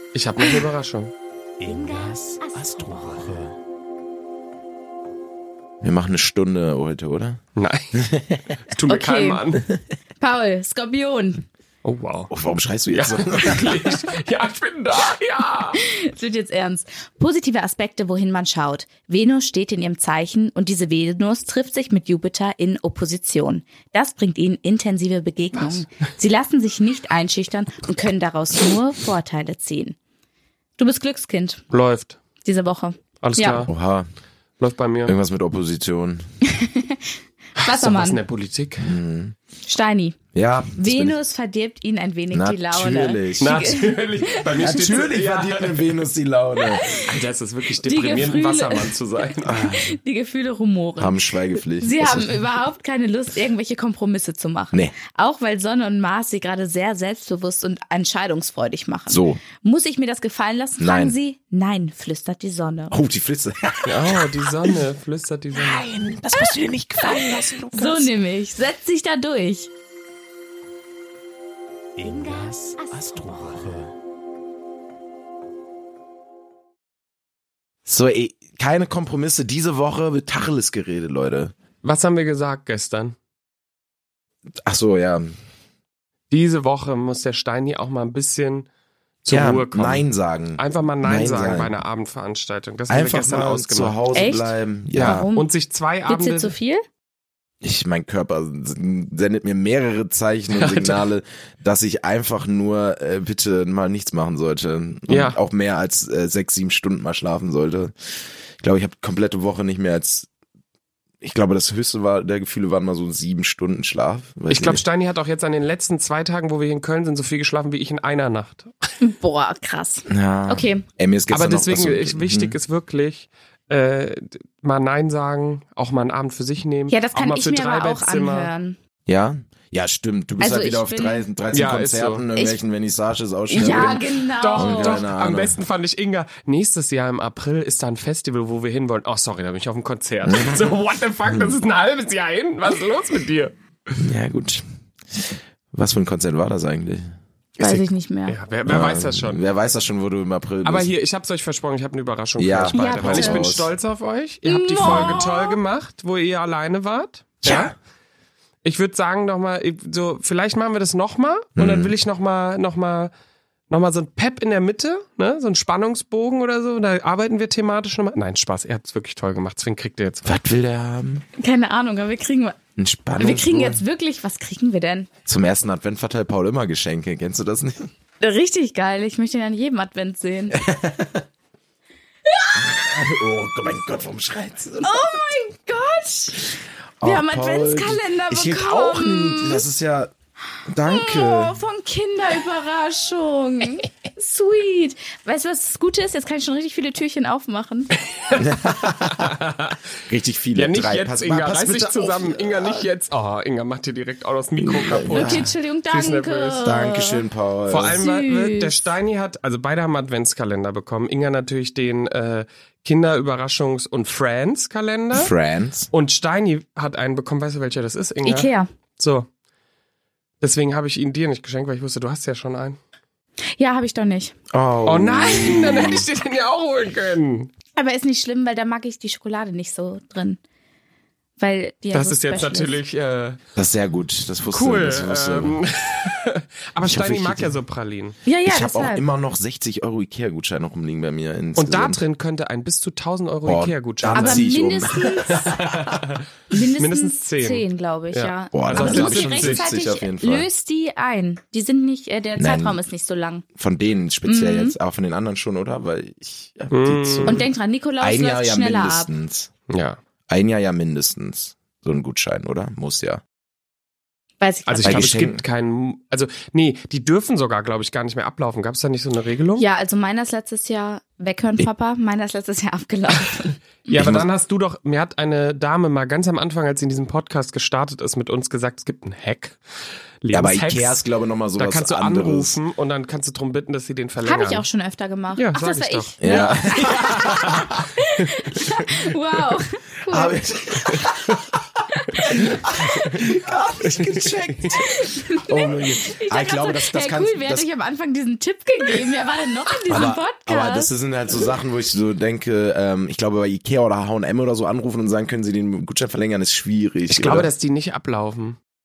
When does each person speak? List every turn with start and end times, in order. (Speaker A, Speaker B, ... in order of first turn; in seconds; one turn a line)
Speaker A: 0.1-1.1
Speaker B: 1.6-3.3
Speaker C: 2.5-3.5
Speaker C: 5.8-7.4
Speaker A: 7.6-8.0
Speaker C: 8.0-8.5
Speaker A: 8.7-9.7
Speaker B: 8.9-9.6
Speaker B: 10.2-11.4
Speaker A: 11.8-12.3
Speaker C: 12.3-14.1
Speaker A: 12.9-15.8
Speaker B: 15.7-30.0
Speaker A: 25.5-25.9
Speaker B: 30.8-31.6
Speaker A: 31.7-32.2
Speaker B: 32.5-33.7
Speaker A: 33.2-33.7
Speaker C: 33.6-34.1
Speaker A: 34.6-35.1
Speaker C: 35.1-36.3
Speaker B: 36.4-38.2
Speaker A: 37.6-38.9
Speaker C: 38.8-39.4
Speaker B: 39.6-40.2
Speaker C: 40.3-41.2
Speaker B: 40.8-44.6
Speaker C: 42.3-43.6
Speaker A: 43.4-46.0
Speaker C: 44.5-47.0
Speaker A: 46.8-49.7
Speaker B: 47.8-63.0
Speaker C: 49.4-49.8
Speaker C: 51.0-52.4
Speaker C: 59.1-59.4
Speaker C: 60.8-61.2
Speaker C: 62.9-64.7
Speaker A: 63.9-65.9
Speaker C: 65.5-68.1
Speaker B: 66.3-69.7
Speaker B: 72.0-73.7
Speaker C: 72.9-73.9
Speaker C: 77.9-81.5
Speaker A: 81.8-83.2
Speaker C: 84.7-85.3
Speaker A: 86.3-88.7
Speaker A: 89.2-90.0
Speaker C: 89.3-91.7
Speaker A: 90.6-94.0
Speaker C: 92.9-95.3
Speaker B: 94.1-95.5
Speaker A: 95.0-96.5
Speaker B: 96.1-96.8
Speaker C: 97.6-107.9
Speaker A: 100.5-101.0
Speaker A: 105.1-105.4
Speaker C: 108.6-110.3
Speaker C: 111.2-114.8
Speaker A: 114.5-118.7
Speaker B: 119.0-120.8
Speaker C: 120.1-122.6
Speaker A: 121.3-128.5
Speaker B: 126.9-128.8
Speaker C: 129.1-135.6
Speaker B: 130.4-131.2
Speaker A: 131.5-132.2
Speaker B: 133.5-135.1
Speaker A: 133.6-143.6
Speaker C: 140.2-140.7
Speaker C: 141.3-141.5
Speaker C: 144.0-147.2
Speaker B: 147.6-148.4
Speaker A: 147.6-149.4
Speaker C: 148.7-150.9
Speaker A: 150.6-157.7
Speaker C: 152.4-153.7
Speaker B: 152.7-153.5
Speaker B: 154.5-155.6
Speaker C: 157.4-157.7
Speaker A: 158.6-163.1
Speaker C: 161.6-161.9
Speaker A: 163.7-170.2
Speaker C: 170.2-171.2
Speaker B: 171.4-172.6
Speaker C: 172.8-173.8
Speaker B: 173.2-175.1
Speaker C: 175.3-177.9
Speaker B: 178.2-180.6
Speaker C: 180.5-181.2
Speaker B: 182.3-183.1
Speaker C: 182.5-185.2
Speaker B: 184.8-186.5
Speaker C: 187.0-190.1
Speaker B: 187.0-189.6
Speaker C: 190.7-191.6
Speaker B: 190.8-197.9
Speaker A: 198.1-199.8
Speaker C: 198.3-199.4
Speaker C: 200.1-202.9
Speaker A: 200.6-206.7
Speaker C: 204.6-205.5
Speaker B: 205.1-207.2
Speaker C: 206.6-208.0
Speaker A: 207.7-215.3
Speaker B: 207.9-208.8
Speaker C: 215.1-215.9
Speaker A: 215.9-219.3
Speaker B: 218.2-218.7
Speaker A: 220.4-222.8
Speaker B: 223.6-224.3
Speaker C: 224.5-226.1
Speaker A: 224.9-227.5
Speaker B: 227.7-230.4
Speaker B: 231.4-232.8
Speaker A: 231.9-233.4
Speaker C: 233.6-235.6
Speaker A: 234.5-238.2
Speaker C: 236.8-237.6
Speaker B: 238.3-239.0
Speaker C: 238.4-242.0
Speaker A: 241.6-244.6
Speaker C: 243.4-245.8
Speaker B: 244.1-245.6
Speaker A: 245.2-246.2
Speaker B: 246.5-253.4
Speaker A: 246.8-249.7
Speaker C: 248.5-250.5
Speaker C: 252.4-252.8
Speaker C: 253.6-257.5
Speaker B: 254.3-254.8
Speaker A: 256.7-257.5
Speaker B: 257.3-259.1
Speaker C: 258.0-259.5
Speaker A: 259.7-260.0
Speaker C: 260.3-263.2
Speaker B: 264.4-265.1
Speaker A: 264.7-269.6
Speaker C: 264.8-265.4
Speaker B: 269.6-273.6
Speaker A: 273.9-279.6
Speaker C: 273.9-274.3
Speaker A: 280.2-281.0
Speaker C: 280.3-282.6
Speaker A: 281.6-284.6
Speaker B: 284.2-290.4
Speaker A: 285.4-288.9
Speaker C: 286.2-287.9
Speaker C: 290.1-297.7
Speaker A: 291.0-291.4
Speaker A: 293.9-294.7
Speaker B: 294.7-300.9
Speaker C: 299.9-307.5
Speaker A: 307.1-308.6